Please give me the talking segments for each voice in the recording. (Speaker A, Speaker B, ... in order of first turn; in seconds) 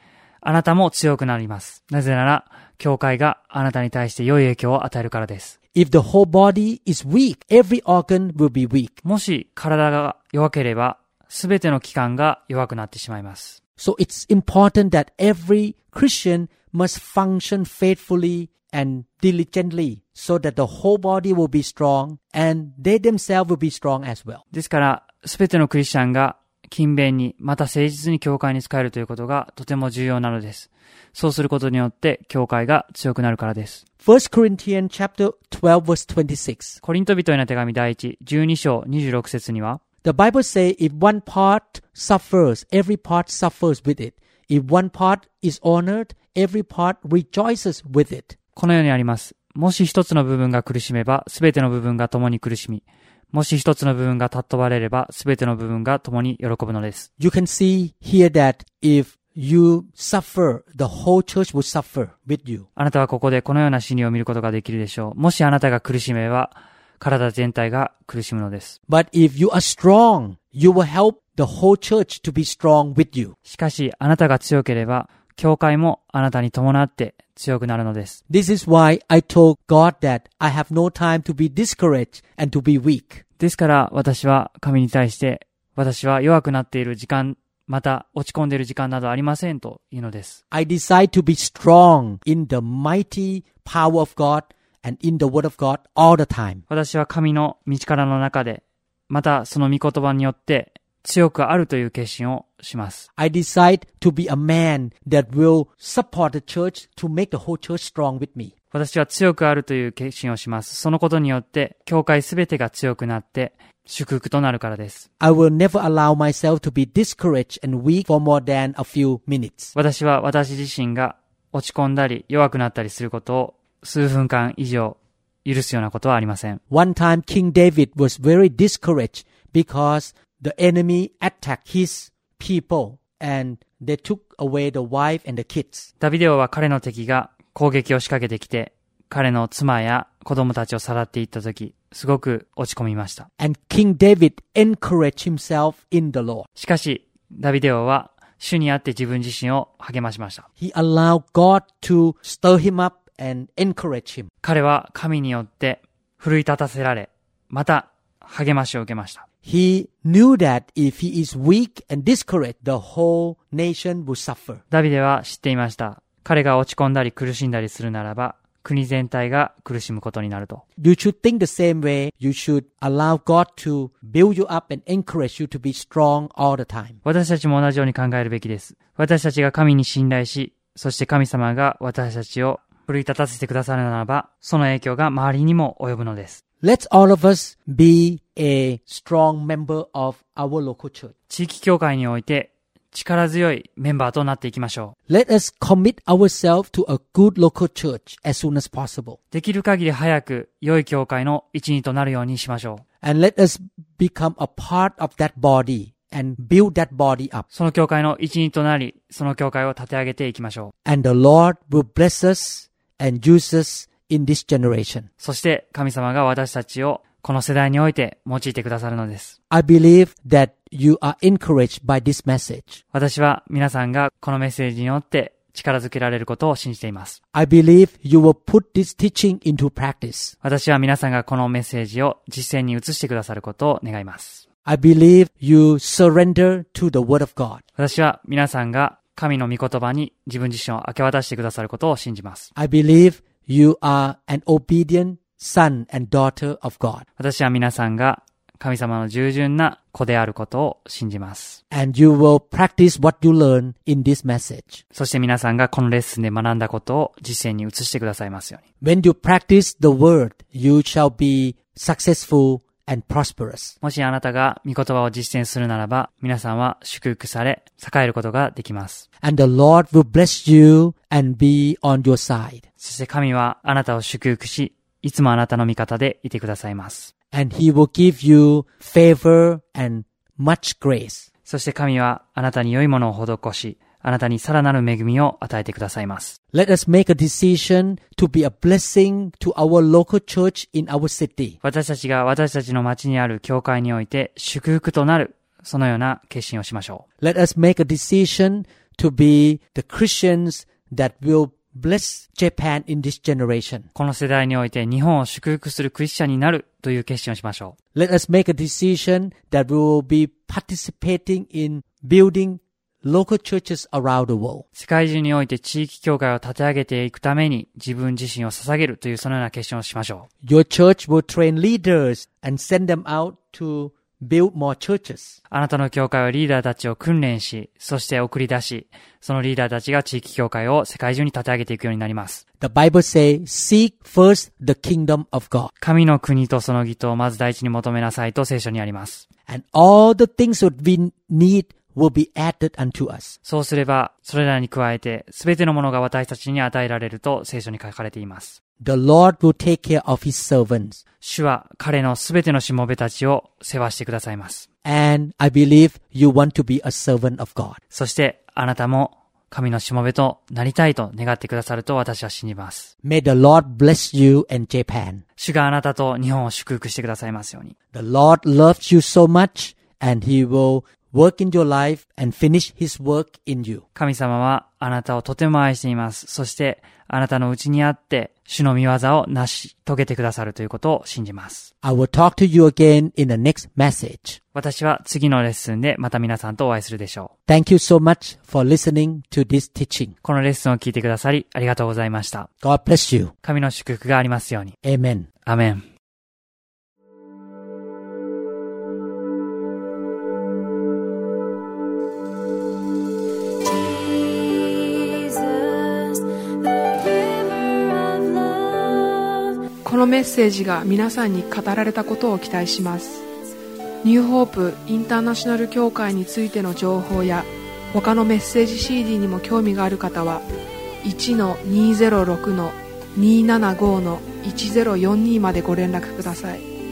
Speaker A: 0.4-5.6, 9.0-13.6, 24.5-33.8, 36.8-39.8, 48.6-57.1, 62.8-68.8, 73.5-78.2, 83.4-90.4, 96.7-103.1, 108.7-115.1, 119.8-126.6, 136.0-143.3, 146.6-150.4, 154.4-159.2, 164.7-170.6, 177.0-186.4, 191.3-194.9, 199.3-202.8, 207.5-210.7, 215.2-219.4, 222.9-227.2, 230.4-234.4, 237.8-242.5, 247.2-251.6, 254.9-258.6, 263.8-269.1, 272.8-277.1, 281.5-286.4, 291.6-297.0, 303.9-307.8, 314.8-320.3, 325.5-332.4, 335.8-339.2, 343.4-348.6, 351.2-354.7, 357.9-362.9, 365.4-367.7, 373.9-381.7, 384.5-387.3, 390.2-392.5, 393.4-394.7, 395.5-395.8
Speaker B: 5.7-9.0, 13.8-24.4, 34.0-36.8, 40.0-48.4, 57.2-62.7, 68.9-73.3, 78.3-83.2, 90.5-96.6, 103.2-108.5, 115.2-119.7, 126.7-135.9, 143.4-146.5, 150.6-154.3, 159.4-164.6, 170.8-177.0, 186.6-191.1, 195.1-199.2, 203.0-207.5, 210.8-215.1, 219.5-222.8, 227.3-230.3, 234.7-237.6, 242.6-247.1, 251.7-254.8, 258.8-263.8, 269.2-272.6, 277.3-281.3, 286.5-291.6, 297.2-303.9, 307.9-314.6, 320.4-325.4, 332.6-335.7, 339.5-343.4, 348.8-351.0, 354.8-357.8, 363.0-365.2, 367.9-373.8, 381.8-384.4, 387.5-390.1, 392.6-393.3, 394.8-395.3
Speaker C: 409.8-413.2, 414.0-420.5, 421.0-426.6